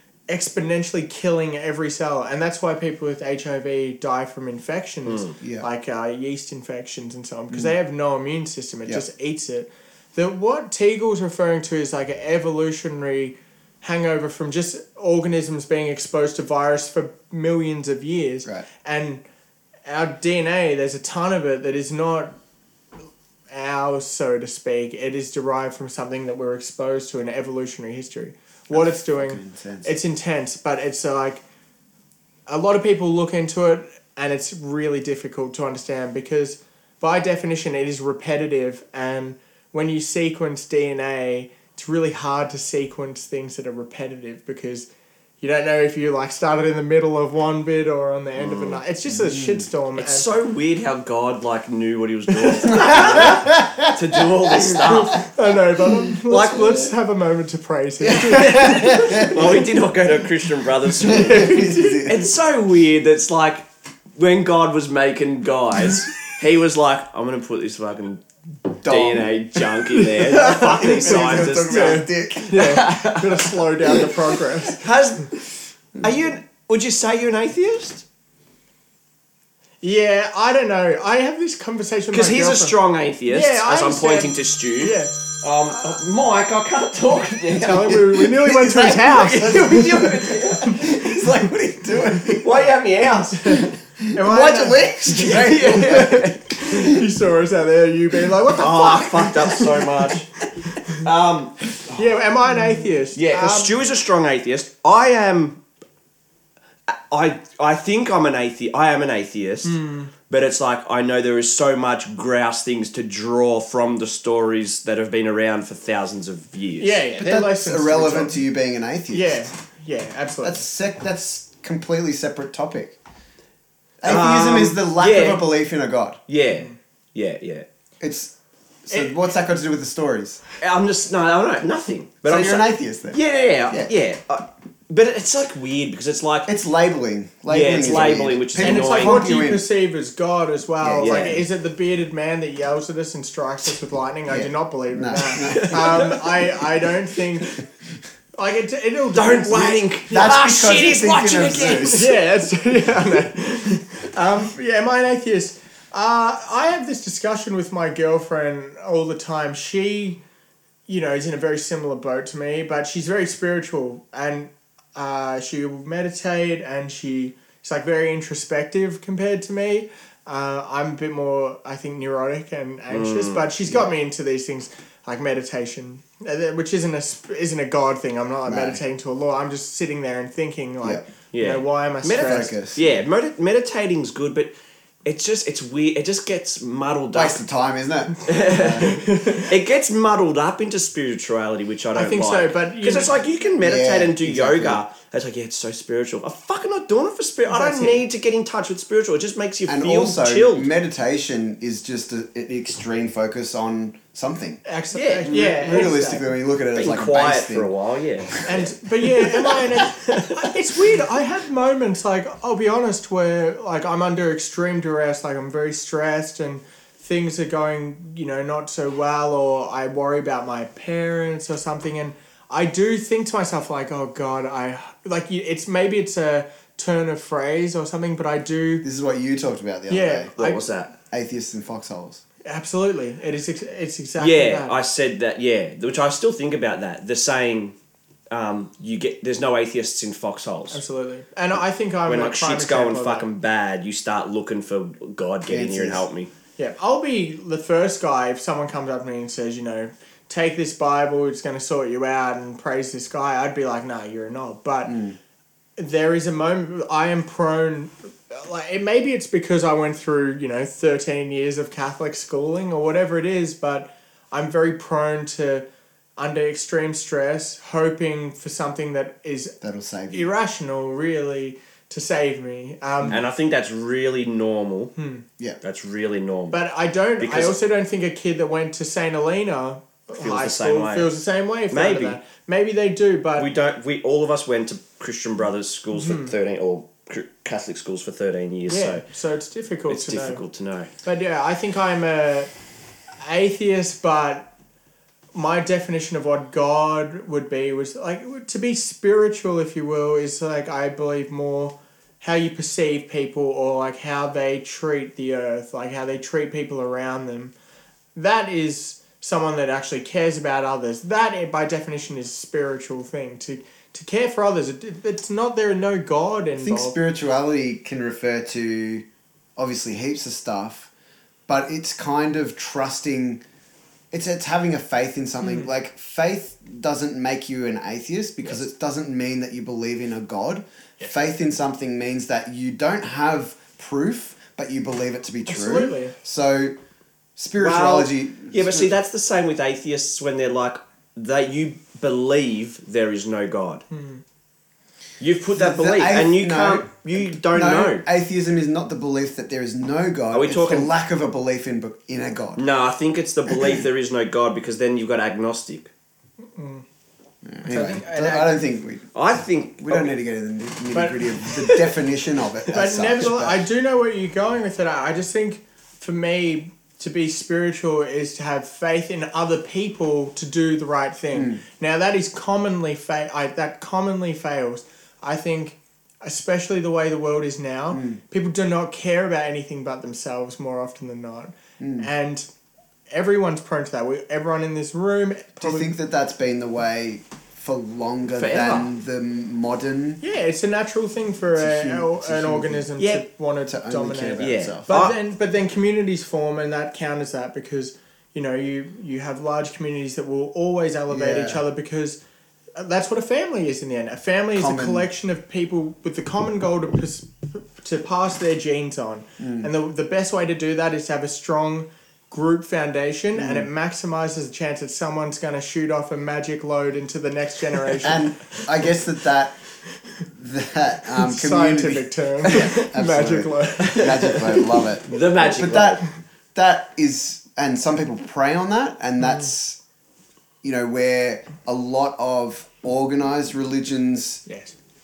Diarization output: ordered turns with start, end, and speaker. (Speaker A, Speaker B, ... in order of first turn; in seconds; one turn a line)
Speaker A: 0.3-19.2
Speaker B: 5.1-5.3
Speaker C: 5.4-5.7
Speaker A: 19.9-22.3
Speaker A: 23.5-31.4
Speaker C: 28.7-30.0
Speaker A: 32.5-44.9
Speaker A: 45.4-50.3
Speaker B: 48.4-48.8
Speaker C: 49.1-49.7
Speaker B: 50.0-55.2
Speaker C: 52.5-55.2
Speaker A: 54.8-59.4
Speaker C: 55.9-56.9
Speaker C: 58.0-59.7
Speaker B: 58.3-73.6
Speaker C: 61.0-62.3
Speaker A: 61.1-62.0
Speaker C: 68.8-72.8
Speaker A: 70.0-74.8
Speaker B: 74.7-75.4
Speaker B: 76.0-78.0
Speaker A: 79.8-82.8
Speaker B: 82.1-88.1
Speaker A: 83.3-85.2
Speaker A: 87.5-89.8
Speaker C: 87.9-92.7
Speaker B: 88.8-91.2
Speaker A: 90.7-91.1
Speaker B: 92.3-93.7
Speaker A: 93.4-99.7
Speaker C: 93.6-96.8
Speaker B: 95.1-96.4
Speaker B: 98.5-100.3
Speaker B: 100.9-101.8
Speaker A: 101.9-103.8
Speaker B: 103.2-105.6
Speaker B: 106.9-117.0
Speaker A: 109.7-110.1
Speaker A: 116.8-118.4
Speaker C: 117.2-119.5
Speaker A: 119.1-120.6
Speaker C: 120.4-123.0
Speaker C: 124.0-126.2
Speaker B: 124.0-125.5
Speaker B: 126.3-127.7
Speaker C: 128.0-128.3
Speaker C: 128.9-130.4
Speaker A: 128.9-129.2
Speaker B: 130.6-136.5
Speaker C: 132.2-133.9
Speaker C: 136.5-139.7
Speaker B: 137.5-139.2
Speaker A: 138.6-147.6
Speaker C: 140.8-141.4
Speaker B: 141.0-141.4
Speaker C: 144.3-146.2
Speaker B: 145.4-146.5
Speaker A: 148.4-150.4
Speaker B: 149.1-152.2
Speaker C: 150.1-152.2
Speaker A: 151.9-160.2
Speaker A: 160.9-182.5
Speaker B: 172.9-173.5
Speaker C: 178.5-178.8
Speaker B: 181.3-184.5
Speaker C: 182.2-182.9
Speaker B: 185.1-187.4
Speaker C: 187.1-189.0
Speaker B: 188.3-200.7
Speaker A: 188.8-189.5
Speaker A: 191.9-193.1
Speaker C: 193.6-194.8
Speaker A: 197.5-198.0
Speaker C: 199.7-204.6
Speaker A: 204.7-206.3
Speaker B: 204.9-205.9
Speaker C: 205.2-207.7
Speaker B: 206.8-208.8
Speaker A: 208.5-228.9
Speaker B: 209.3-210.4
Speaker C: 228.8-230.3
Speaker A: 229.9-230.7
Speaker B: 230.4-230.9
Speaker C: 231.1-232.2
Speaker A: 232.4-234.8
Speaker B: 234.2-237.8
Speaker B: 238.3-240.8
Speaker A: 240.7-243.3
Speaker B: 242.1-246.3
Speaker C: 245.5-246.1
Speaker A: 246.6-255.0
Speaker C: 254.9-255.2
Speaker A: 255.8-265.6
Speaker A: 266.2-269.6
Speaker C: 269.6-270.3
Speaker A: 270.1-273.2
Speaker B: 273.1-274.9
Speaker A: 275.0-275.2
Speaker B: 275.6-276.6
Speaker A: 276.5-283.5
Speaker B: 277.2-277.6
Speaker B: 280.2-281.1
Speaker B: 281.7-282.2
Speaker B: 283.4-289.1
Speaker A: 285.9-286.3
Speaker A: 288.7-290.4
Speaker B: 289.9-290.9
Speaker A: 291.0-292.5
Speaker A: 293.2-294.5
Speaker A: 295.3-307.5
Speaker A: 308.1-317.0
Speaker C: 316.6-319.1
Speaker C: 319.6-320.9
Speaker C: 321.5-323.4
Speaker C: 324.1-336.7
Speaker A: 335.5-336.1
Speaker C: 337.4-338.9
Speaker B: 337.6-343.9
Speaker A: 343.9-344.2
Speaker B: 345.2-348.0
Speaker C: 345.5-352.6
Speaker B: 350.3-350.9
Speaker B: 352.6-355.9
Speaker C: 353.5-353.8
Speaker A: 356.6-356.9
Speaker C: 357.4-359.1
Speaker A: 357.6-358.6
Speaker B: 359.1-360.1
Speaker C: 359.8-363.6
Speaker A: 360.9-361.2
Speaker B: 361.5-361.8
Speaker A: 362.7-382.5
Speaker C: 371.3-371.6
Speaker C: 377.9-378.2
Speaker C: 381.8-382.1
Speaker A: 383.1-385.9
Speaker C: 385.6-390.2
Speaker B: 388.4-388.9
Speaker A: 390.2-402.2
Speaker C: 391.6-392.9
Speaker B: 393.0-393.2
Speaker C: 393.7-394.9
Speaker B: 394.4-395.1
Speaker C: 401.1-401.6
Speaker A: 402.8-418.3
Speaker C: 404.6-405.1
Speaker C: 409.4-409.7
Speaker C: 413.4-413.7
Speaker C: 418.0-419.6
Speaker C: 420.3-429.8
Speaker A: 421.2-424.4
Speaker B: 423.9-426.0
Speaker A: 429.2-429.5
Speaker C: 430.6-434.4
Speaker A: 434.5-434.8